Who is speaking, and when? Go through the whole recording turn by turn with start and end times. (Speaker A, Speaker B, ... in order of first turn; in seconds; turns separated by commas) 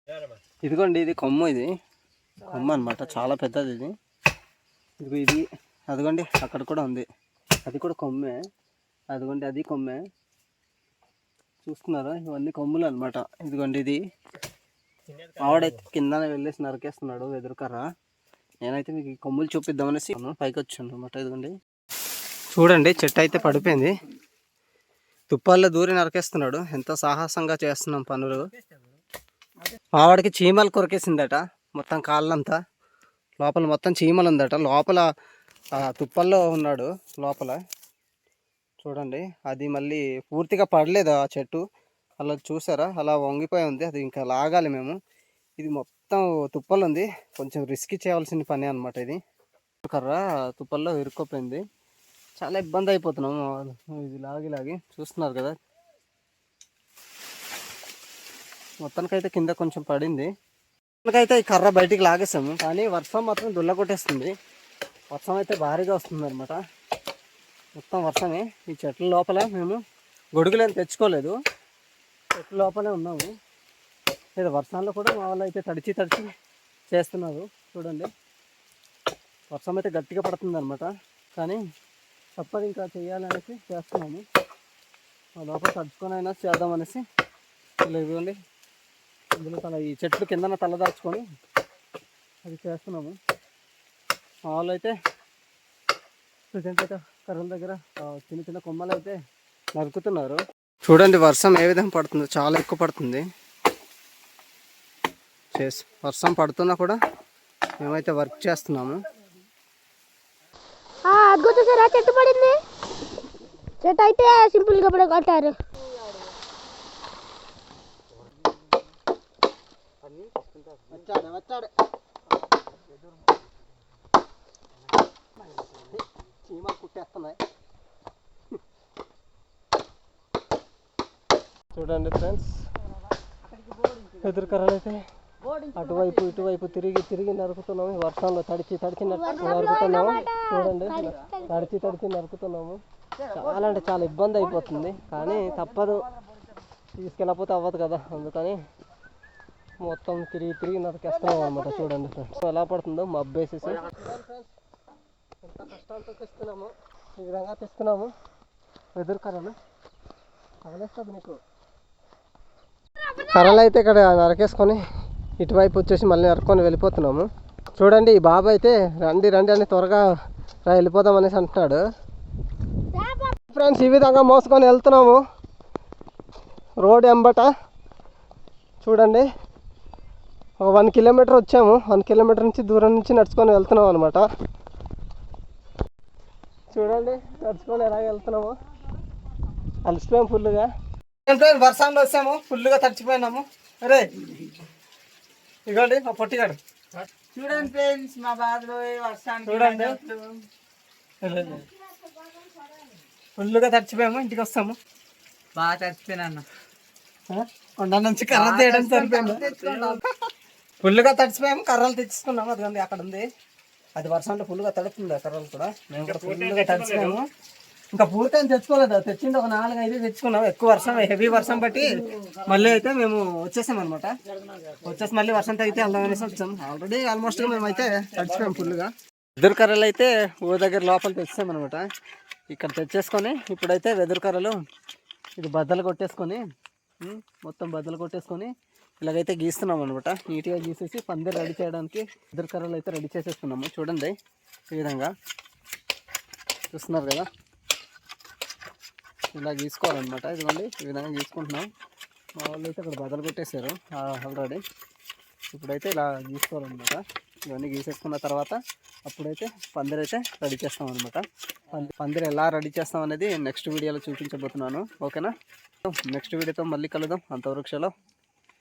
Speaker A: 0.7-1.7, Speaker A: 2.4-3.9, Speaker A: 5.0-7.0, Speaker A: 7.7-8.4, Speaker A: 9.1-10.0, Speaker A: 11.6-14.0, Speaker A: 15.4-17.9, Speaker A: 18.6-21.5, Speaker A: 22.5-23.9, Speaker A: 25.3-28.5, Speaker A: 30.0-32.6, Speaker A: 33.4-35.0, Speaker A: 35.8-37.6, Speaker A: 38.8-41.6, Speaker A: 42.2-45.0, Speaker A: 45.6-49.2, Speaker A: 49.8-51.6, Speaker A: 52.4-55.6, Speaker A: 58.8-60.3, Speaker A: 61.0-64.3, Speaker A: 65.1-66.6, Speaker A: 67.8-69.8, Speaker A: 70.4-71.3, Speaker A: 72.4-73.3, Speaker A: 74.4-76.3, Speaker A: 76.9-78.1, Speaker A: 79.5-81.6, Speaker A: 82.4-84.2, Speaker A: 85.4-87.0, Speaker A: 87.8-88.4, Speaker A: 89.4-91.2, Speaker A: 92.4-93.2, Speaker A: 94.5-95.0, Speaker A: 96.5-99.2, Speaker A: 99.8-103.2, Speaker A: 105.5-107.0, Speaker A: 107.8-109.0, Speaker B: 111.1-112.6, Speaker B: 113.8-115.6, Speaker A: 120.0-121.7, Speaker A: 125.7-127.4, Speaker A: 131.8-132.5, Speaker A: 134.2-135.0, Speaker A: 135.8-142.8, Speaker B: 139.2-141.5, Speaker A: 143.4-146.1, Speaker A: 147.0-148.6, Speaker A: 149.8-154.5, Speaker A: 155.4-158.1, Speaker A: 159.0-159.6, Speaker A: 160.7-161.4, Speaker A: 163.2-164.8, Speaker A: 165.4-167.3, Speaker A: 167.8-170.0, Speaker A: 170.7-171.8, Speaker B: 173.0-173.3, Speaker A: 173.5-175.2, Speaker A: 176.8-177.5, Speaker A: 178.8-179.2, Speaker A: 180.6-184.2, Speaker A: 186.7-188.5, Speaker A: 189.9-190.7, Speaker A: 191.3-194.4, Speaker A: 195.7-196.6, Speaker C: 197.3-200.4, Speaker A: 199.5-200.0, Speaker A: 201.2-201.7, Speaker A: 203.4-204.8, Speaker C: 205.6-206.4, Speaker A: 207.3-209.9, Speaker C: 208.3-210.0, Speaker A: 210.8-213.3, Speaker A: 214.0-217.2, Speaker A: 217.9-224.1, Speaker A: 224.8-231.8, Speaker A: 232.5-234.6, Speaker A: 235.4-236.4, Speaker A: 237.0-244.2, Speaker A: 244.7-245.1, Speaker A: 246.7-247.3, Speaker A: 249.3-251.7, Speaker A: 252.4-254.6, Speaker A: 255.5-265.3, Speaker A: 265.8-267.9